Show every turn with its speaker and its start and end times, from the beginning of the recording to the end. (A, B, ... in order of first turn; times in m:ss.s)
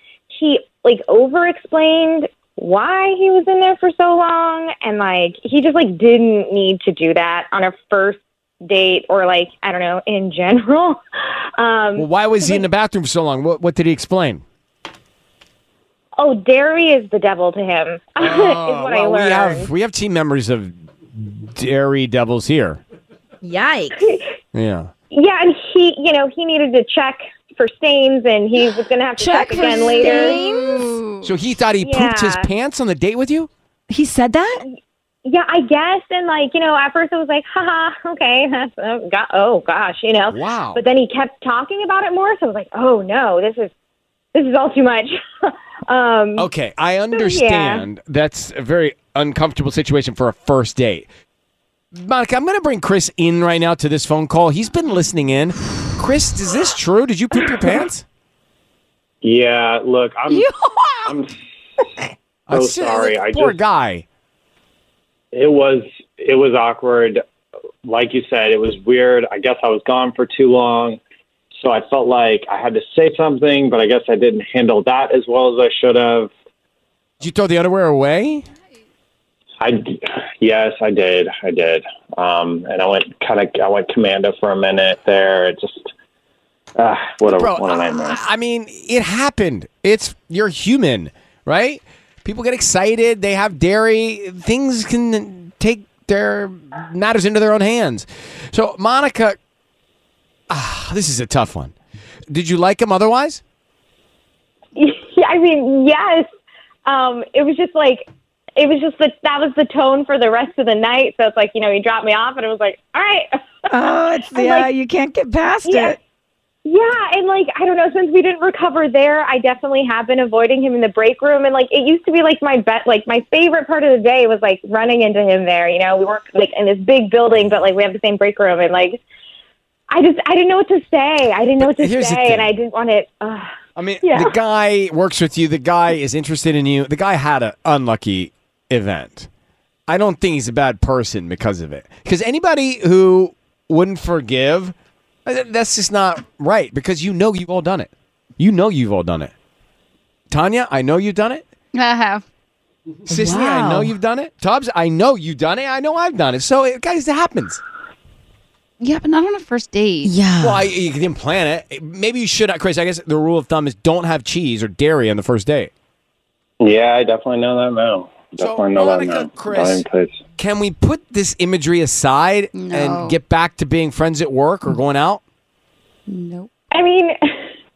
0:00.3-0:11.0 A
0:11.6-0:12.6 A
0:12.0-0:14.4 B
0:16.2-0:19.7 A
0:18.2-0:22.8 B
0:23.4-0:24.0 C
0:24.5-0:24.9 B
0:25.1-0:30.8 A
0:29.2-0:31.0 C
0:29.9-0:31.3 D
0:31.2-0:33.5 B
0:31.8-0:32.4 A
0:33.9-0:34.6 C
0:35.2-0:43.7 A
0:40.3-0:40.8 B
0:44.4-0:46.5 A
0:46.4-0:51.1 B
0:47.1-0:47.9 A
0:51.9-0:58.1 B
0:59.2-1:00.5 E
1:00.3-1:01.2 C
1:01.1-1:01.4 E
1:02.5-1:04.0 B
1:02.5-1:03.6 E
1:05.3-1:07.2 E
1:07.8-1:11.0 E
1:11.6-1:16.3 E
1:17.2-1:18.5 B
1:19.6-1:25.9 E
1:26.8-1:28.2 E
1:27.2-1:39.4 B
1:40.5-1:41.7 B
1:42.3-1:43.4 B
1:44.8-1:46.3 A
1:46.9-1:53.4 A
1:53.7-1:56.0 C
1:54.3-1:54.7 A
1:55.7-1:56.0 A
1:56.6-2:09.0 A
2:09.9-2:13.5 A
2:11.6-2:12.5 B
2:13.8-2:19.3 B
2:14.0-2:14.3 A
2:19.9-2:24.8 B
2:25.3-2:29.3 B
2:30.3-2:31.5 B
2:31.7-2:32.2 D
2:33.1-2:37.6 B
2:33.1-2:33.9 C
2:38.8-2:40.1 D
2:40.0-2:40.6 C
2:40.4-2:45.7 B
2:46.6-2:50.2 E
2:48.4-2:49.8 B
2:50.4-2:55.2 B
2:52.6-2:53.2 D
2:56.1-2:56.5 D
2:56.7-2:57.2 A